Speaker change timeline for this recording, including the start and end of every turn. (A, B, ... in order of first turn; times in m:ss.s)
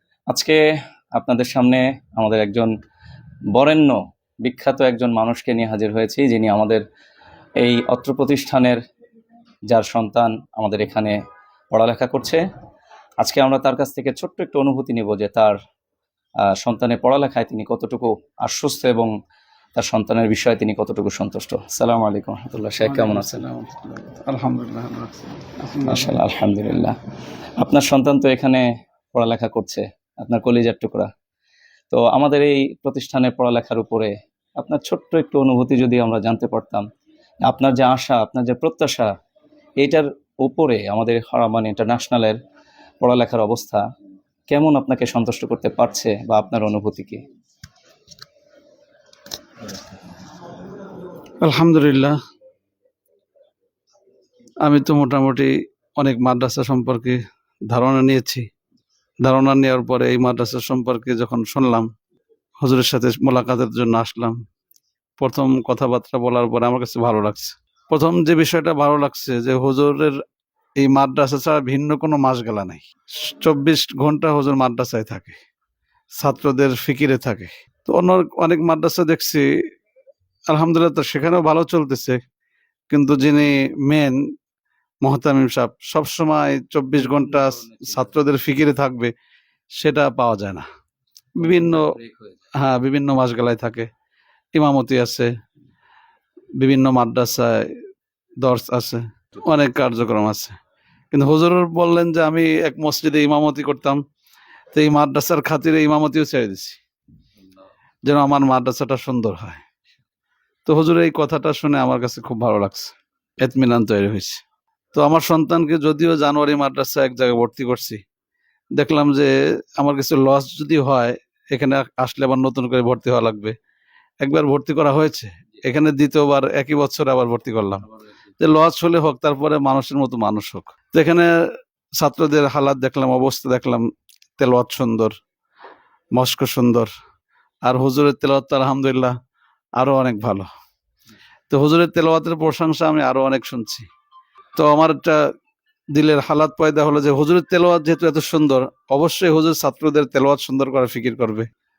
0:00.3-0:00.6 A
0:01.2-0:02.7 A
0:03.5-0:06.8 A
0:07.6-0:08.8 A
0:09.7-0:11.2 A
0:11.7-0:12.4 A
0:13.2-0:15.6 A
0:16.4-0:19.1 A
0:19.8-0:23.4 A
0:22.8-0:26.2 B
0:25.8-0:26.9 A
0:27.6-0:31.1 A
0:31.9-0:36.8 A
0:37.4-0:39.1 A
0:39.8-0:42.4 A
0:43.0-0:43.8 A
0:44.5-0:47.2 A
0:51.4-0:52.2 B
0:54.6-0:58.4 B
0:59.2-1:01.9 B
1:02.6-1:04.4 B
1:05.2-1:10.2 B
1:10.8-1:15.4 B
1:16.2-1:19.4 B
1:20.5-1:22.2 B
1:22.9-1:24.2 B
1:25.0-1:29.1 B
1:27.0-1:28.2 A
1:29.8-1:30.6 B
1:31.4-1:31.9 B
1:31.4-1:32.4 A
1:32.5-1:33.9 B
1:34.5-1:35.3 B
1:36.6-1:37.7 B
1:38.4-1:40.6 B
1:41.1-1:44.0 B
1:44.7-1:46.8 B
1:48.0-1:49.6 B
1:50.6-1:54.4 B
1:54.9-1:58.0 B
1:58.7-2:03.5 B
2:04.2-2:07.8 B
2:07.8-2:08.3 A
2:08.4-2:11.3 B
2:12.0-2:15.1 B
2:16.1-2:16.9 B
2:17.6-2:19.1 B
2:19.8-2:20.5 B
2:21.5-2:23.9 B
2:24.6-2:25.2 B
2:25.9-2:31.5 B